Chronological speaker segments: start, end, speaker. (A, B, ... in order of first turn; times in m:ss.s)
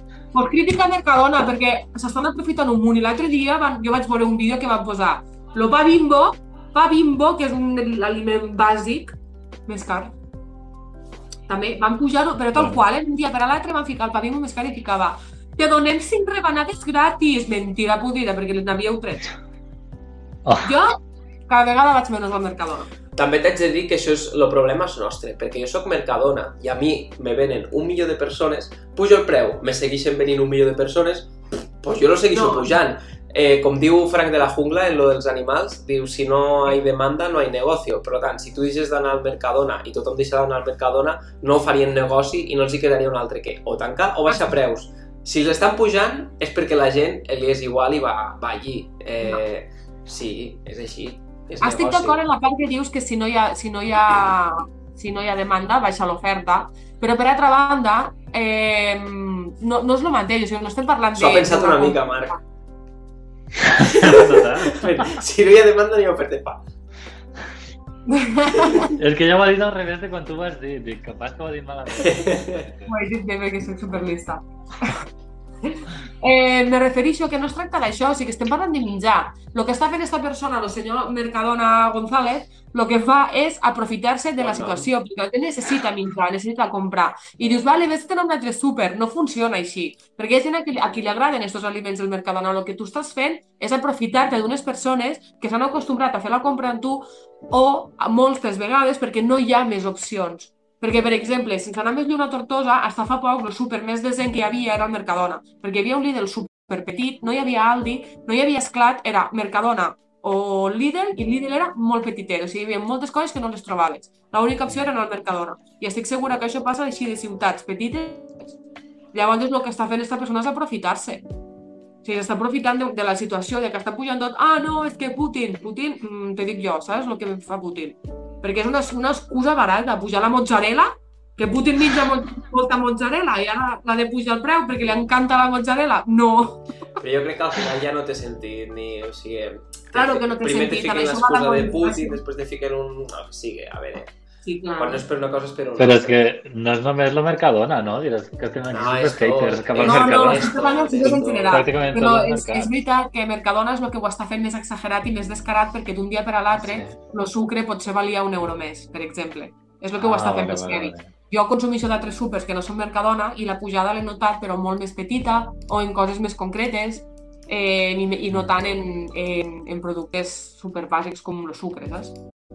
0:00.3-0:09.1 A
0:09.7-0:10.1 A
0:11.5-0:19.3 A
0:20.6-0:20.9 A
0:21.5-0:22.9 A
0:23.1-0:52.2 B
0:32.3-0:32.7 A
0:51.6-1:02.4 A
1:01.1-1:02.4 B
1:03.6-1:05.1 C
1:03.8-1:06.6 B
1:08.1-1:08.9 A
1:08.8-1:12.9 C
1:11.9-1:12.7 B
1:12.9-1:15.0 A
1:15.6-1:58.4 A
1:24.4-1:24.9 B
1:59.1-2:01.2 A
2:02.0-2:16.6 A
2:17.0-2:24.1 B
2:19.9-2:22.2 A
2:24.4-2:25.0 A
2:24.8-2:26.2 B
2:25.8-2:32.7 C
2:28.7-2:31.7 B
2:29.8-2:52.2 A
2:36.5-2:37.0 C
2:40.0-2:41.1 C